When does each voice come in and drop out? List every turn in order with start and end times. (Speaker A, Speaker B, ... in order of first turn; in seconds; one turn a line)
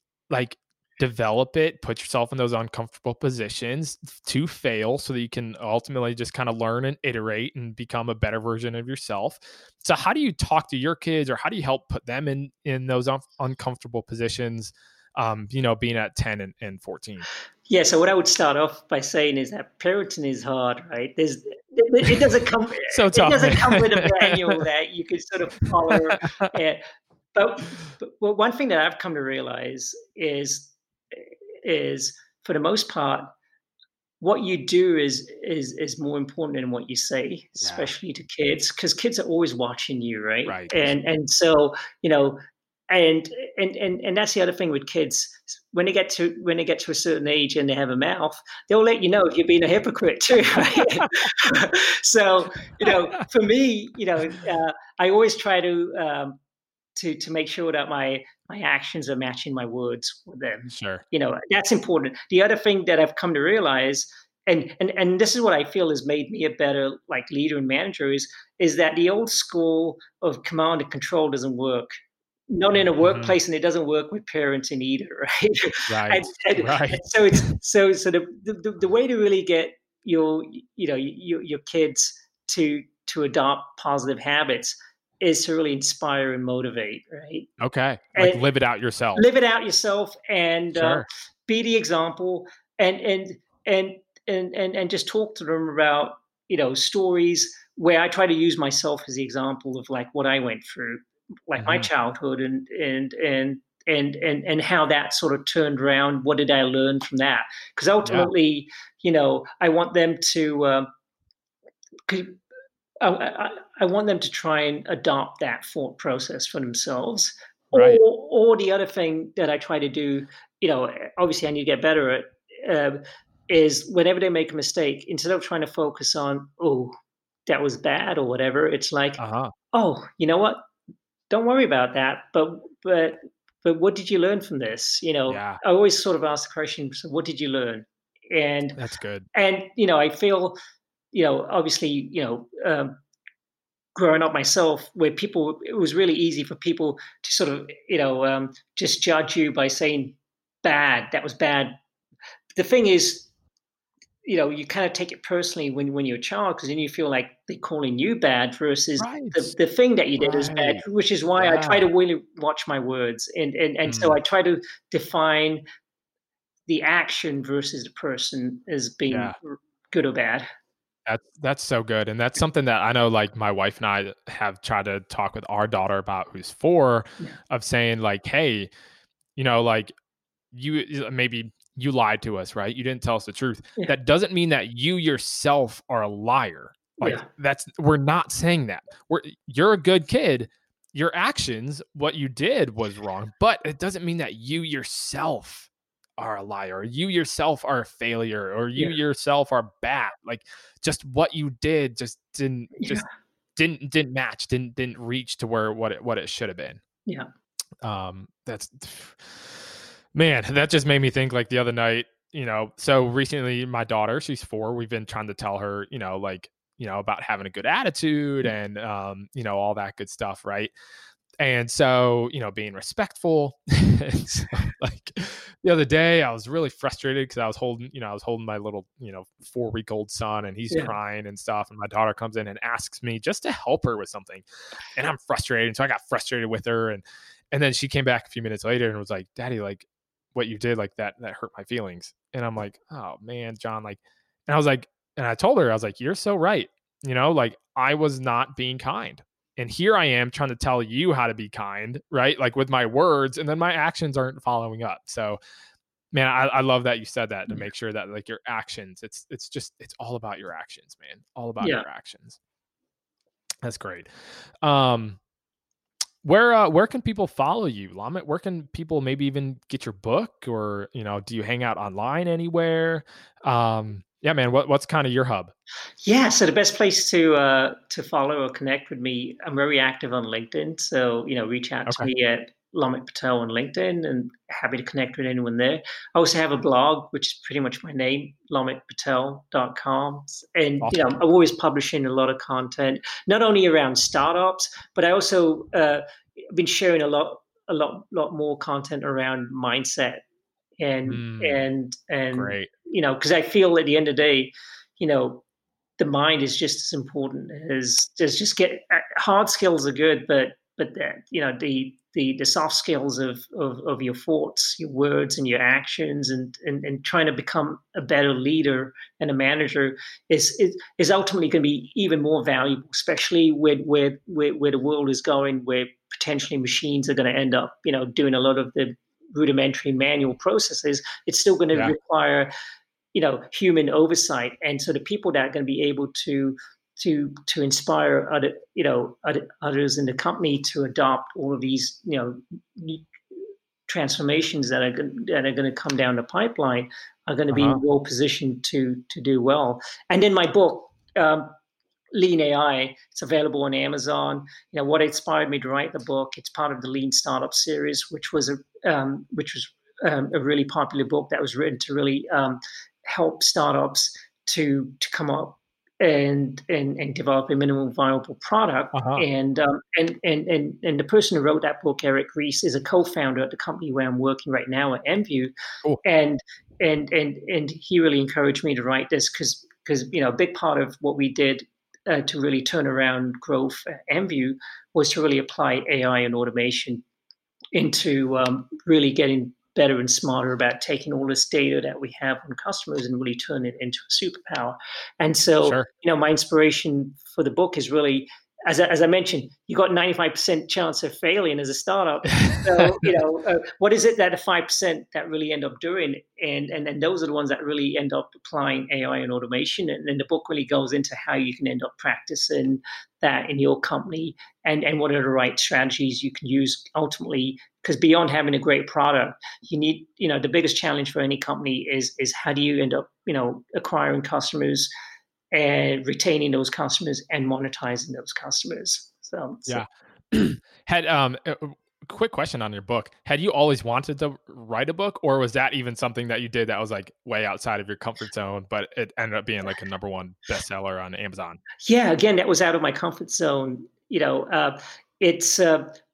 Speaker A: 0.3-17.3
Speaker B: 17.7-26.8
Speaker A: 22.9-24.6
Speaker A: 25.9-26.5
Speaker B: 27.4-33.3
Speaker B: 34.2-42.4
Speaker A: 37.6-37.9
Speaker A: 40.5-40.9
Speaker B: 42.9-56.4
Speaker B: 57.0-71.9
Speaker A: 60.7-61.0
Speaker B: 72.5-87.5
Speaker A: 73.0-73.3
Speaker A: 75.9-77.5
Speaker A: 87.6-89.2
Speaker B: 88.2-88.4
Speaker B: 89.2-110.9
Speaker A: 90.8-91.1
Speaker A: 101.6-101.9
Speaker A: 108.0-108.3
Speaker B: 112.1-112.4
Speaker B: 113.0-126.9
Speaker A: 117.7-118.0
Speaker B: 127.5-129.2
Speaker A: 129.2-129.5
Speaker B: 129.7-130.6
Speaker B: 131.3-138.8
Speaker A: 135.3-135.6
Speaker A: 138.8-139.3
Speaker B: 139.3-140.6
Speaker B: 141.1-142.9
Speaker B: 143.9-151.7
Speaker B: 152.6-153.3
Speaker B: 154.2-165.6
Speaker A: 159.0-159.5
Speaker A: 160.2-160.8
Speaker A: 161.4-161.8
Speaker A: 163.9-164.2
Speaker B: 166.7-170.5
Speaker A: 169.1-169.3
Speaker A: 171.1-178.7
Speaker A: 179.4-179.9
Speaker A: 180.5-203.1
Speaker B: 187.0-187.3
Speaker A: 203.6-206.8
Speaker A: 207.8-220.7
Speaker A: 221.4-234.4
Speaker B: 230.7-230.9
Speaker A: 235.0-255.4
Speaker A: 256.1-262.4
Speaker B: 261.6-261.9
Speaker A: 263.6-264.1
Speaker A: 264.6-265.2
Speaker A: 266.2-275.5
Speaker B: 276.1-300.2
Speaker A: 290.8-291.2
Speaker B: 300.8-305.4
Speaker A: 301.1-301.6
Speaker A: 302.3-302.7
Speaker B: 306.0-332.5
Speaker B: 333.1-343.1
Speaker B: 343.9-351.6
Speaker A: 347.5-347.8
Speaker B: 352.1-375.5
Speaker A: 368.9-369.2
Speaker B: 376.0-387.0
Speaker B: 387.7-424.9
Speaker A: 402.4-403.1
Speaker B: 425.5-429.8
Speaker A: 429.7-441.6
Speaker B: 441.8-445.9